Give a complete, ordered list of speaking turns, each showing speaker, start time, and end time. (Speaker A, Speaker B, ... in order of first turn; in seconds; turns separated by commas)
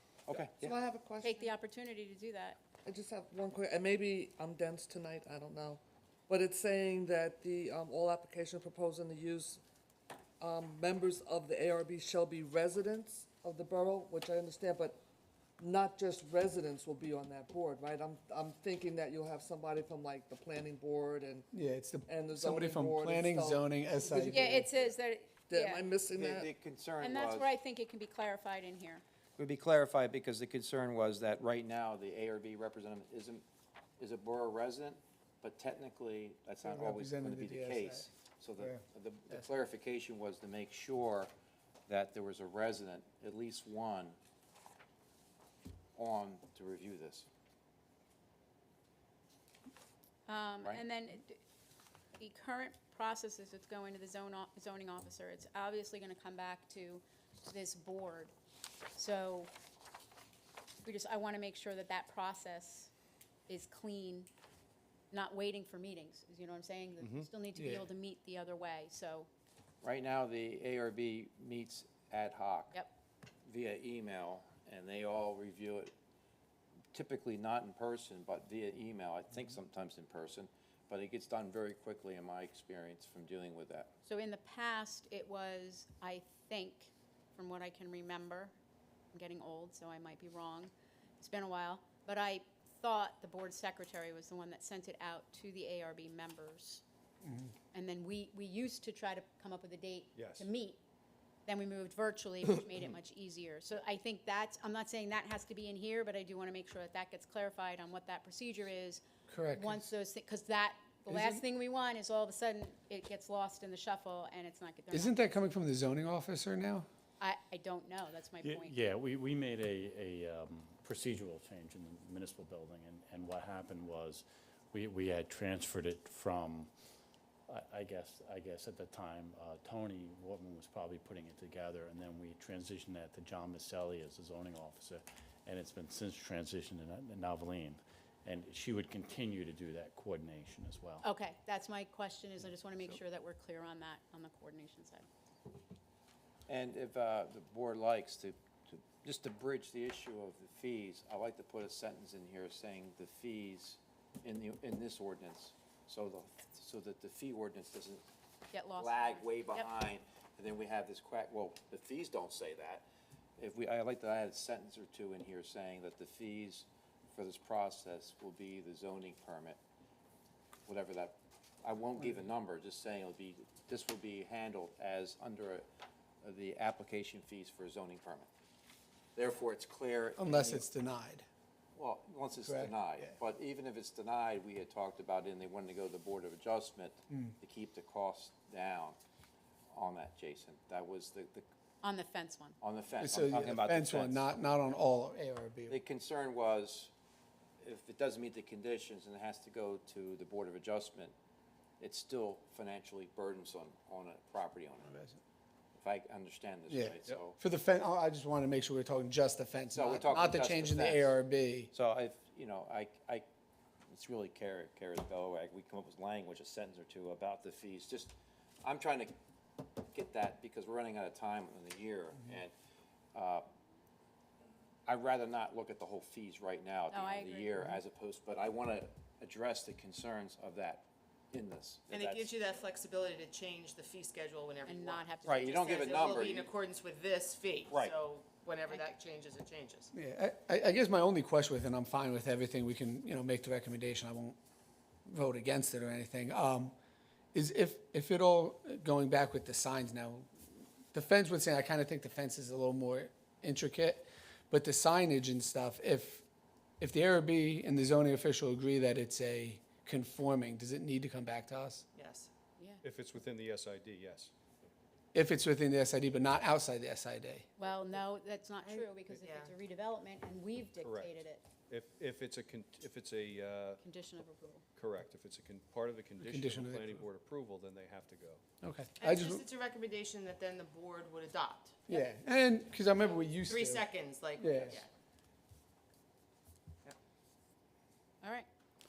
Speaker A: 0.3-0.8, Speaker B: 0.6-1.5, Speaker C: 1.2-2.6, Speaker B: 2.9-9.6, Speaker B: 10.4-15.0, Speaker B: 15.6-21.5, Speaker D: 21.5-24.7, Speaker B: 22.1-24.7, Speaker C: 24.3-25.8, Speaker B: 25.5-26.5, Speaker A: 26.1-27.5, Speaker C: 27.0-29.0, Speaker A: 29.4-33.4, Speaker A: 34.0-41.3, Speaker D: 36.6-39.5, Speaker A: 41.9-44.2, Speaker A: 46.0-47.3, Speaker C: 50.3-51.4, Speaker C: 52.2-58.3, Speaker C: 59.0-59.5, Speaker C: 60.9-62.9, Speaker C: 63.5-64.3, Speaker C: 65.1-69.3, Speaker E: 67.0-67.3, Speaker D: 67.6-67.9, Speaker A: 69.8-72.8, Speaker A: 73.5-75.9, Speaker A: 76.9-83.9, Speaker C: 84.1-88.5, Speaker C: 89.1-96.8, Speaker D: 97.2-97.5, Speaker C: 97.7-100.8, Speaker E: 100.2-100.5, Speaker C: 101.5-115.2, Speaker D: 109.3-109.9, Speaker D: 111.1-111.4, Speaker D: 114.9-116.9, Speaker C: 117.2-118.8, Speaker F: 118.4-126.7, Speaker F: 127.5-141.1, Speaker C: 141.0-145.1, Speaker A: 146.5-158.1, Speaker C: 158.5-159.7, Speaker A: 158.8-162.9, Speaker A: 163.4-169.6, Speaker A: 170.7-175.7, Speaker A: 176.2-178.3, Speaker A: 179.2-180.7, Speaker D: 180.2-181.3, Speaker A: 181.8-189.0, Speaker D: 182.4-183.1, Speaker D: 187.1-187.3, Speaker A: 189.7-191.4, Speaker C: 191.8-192.6, Speaker A: 192.6-194.3, Speaker D: 193.0-195.8, Speaker A: 195.7-196.9, Speaker A: 197.6-201.2, Speaker A: 201.8-204.9, Speaker D: 204.9-205.2, Speaker A: 205.8-207.4, Speaker D: 206.7-211.7, Speaker A: 209.7-211.2, Speaker A: 211.7-213.2, Speaker A: 213.9-219.1, Speaker A: 219.8-222.5, Speaker A: 223.1-223.4, Speaker A: 224.9-232.4, Speaker C: 226.9-227.8, Speaker G: 231.9-239.9, Speaker C: 234.7-236.1, Speaker A: 235.2-236.5, Speaker A: 237.7-238.0, Speaker D: 239.9-244.4, Speaker D: 245.1-246.7, Speaker D: 247.3-250.4, Speaker D: 250.9-256.3, Speaker D: 256.8-261.9, Speaker G: 261.9-262.3, Speaker E: 262.8-264.3, Speaker D: 265.1-267.5, Speaker C: 267.6-271.4, Speaker G: 268.6-269.6, Speaker E: 270.8-273.8, Speaker C: 273.8-274.6, Speaker E: 274.8-278.4, Speaker D: 276.2-277.0, Speaker D: 278.6-279.5, Speaker G: 279.0-281.9, Speaker D: 281.9-283.9, Speaker G: 283.4-284.9, Speaker D: 284.4-284.8, Speaker C: 288.2-288.5